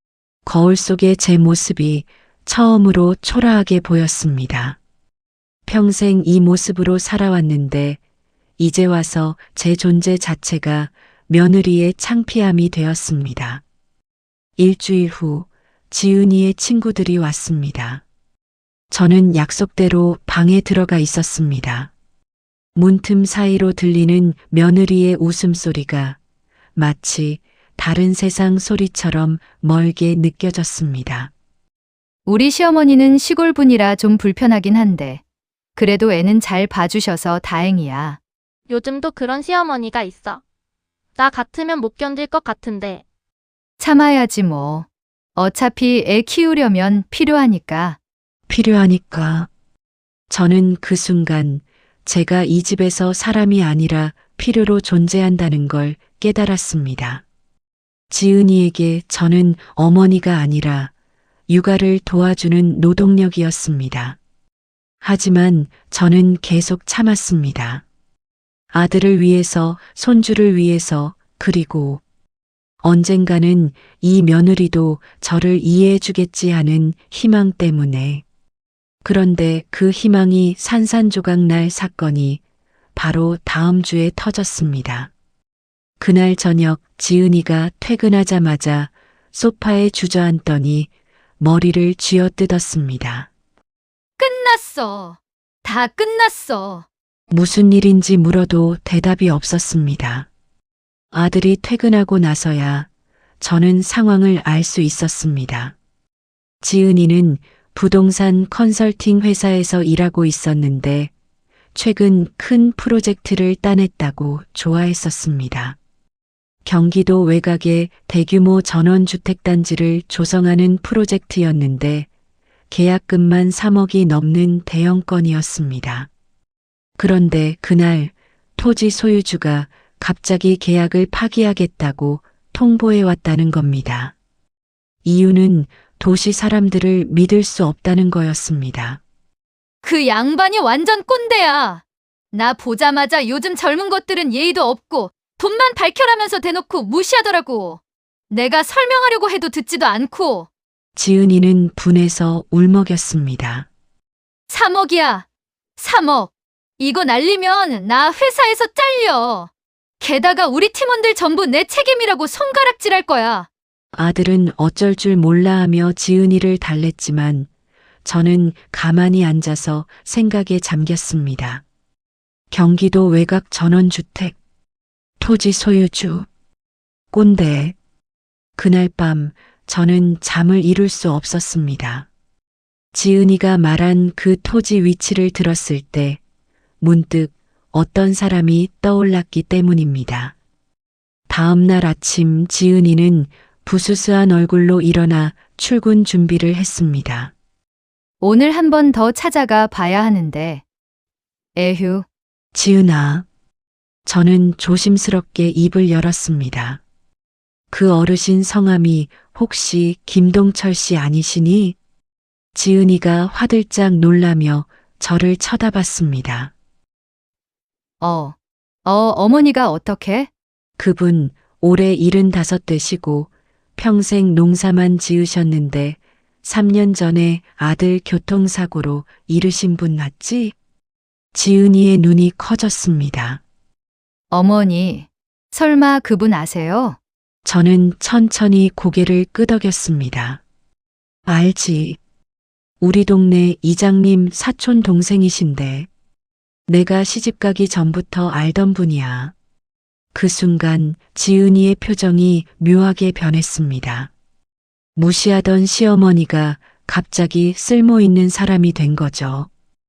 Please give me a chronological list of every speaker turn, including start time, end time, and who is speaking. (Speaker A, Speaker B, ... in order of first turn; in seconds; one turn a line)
Speaker A: 0.4-4.8
Speaker A: 5.7-8.0
Speaker A: 8.6-13.6
Speaker A: 14.6-18.0
Speaker A: 18.9-21.9
Speaker A: 22.7-26.2
Speaker A: 26.8-31.3
Speaker B: 32.2-35.2
Speaker B: 35.8-38.2
Speaker C: 38.7-40.4
Speaker C: 41.1-43.0
Speaker B: 43.8-48.0
Speaker A: 48.5-49.5
Speaker A: 50.3-57.2
Speaker A: 58.1-60.9
Speaker A: 61.5-64.2
Speaker A: 65.0-67.8
Speaker A: 68.7-72.0
Speaker A: 72.8-78.2
Speaker A: 79.0-82.4
Speaker A: 82.9-85.1
Speaker A: 86.0-93.3
Speaker B: 94.2-96.8
Speaker A: 97.3-100.3
Speaker A: 101.1-102.9
Speaker A: 103.4-105.7
Speaker A: 106.6-111.1
Speaker A: 111.7-115.8
Speaker A: 116.6-122.1
Speaker A: 122.7-126.1
Speaker A: 127.0-134.1
Speaker A: 135.0-139.0
Speaker B: 139.8-150.5
Speaker A: 150.9-153.7
Speaker B: 154.5-155.2
Speaker B: 155.8-163.5
Speaker A: 163.9-167.5
Speaker A: 168.0-171.6
Speaker A: 172.5-174.3
Speaker A: 175.2-176.3
Speaker A: 177.1-177.7
Speaker A: 178.6-182.1
Speaker A: 182.9-186.2
Speaker A: 186.8-190.3
Speaker A: 191.3-197.3
Speaker B: 198.2-200.6
Speaker B: 201.6-202.1
Speaker A: 202.5-203.2
Speaker A: 204.1-206.8
Speaker A: 207.7-211.8
Speaker A: 212.5-216.5
Speaker B: 218.0-220.3
Speaker A: 220.8-230.5
Speaker A: 231.3-233.4
Speaker B: 234.3-237.0
Speaker A: 237.4-240.4
Speaker A: 241.2-242.0
Speaker A: 242.8-245.9
Speaker A: 246.7-249.3
Speaker A: 250.1-254.1
Speaker A: 254.9-259.5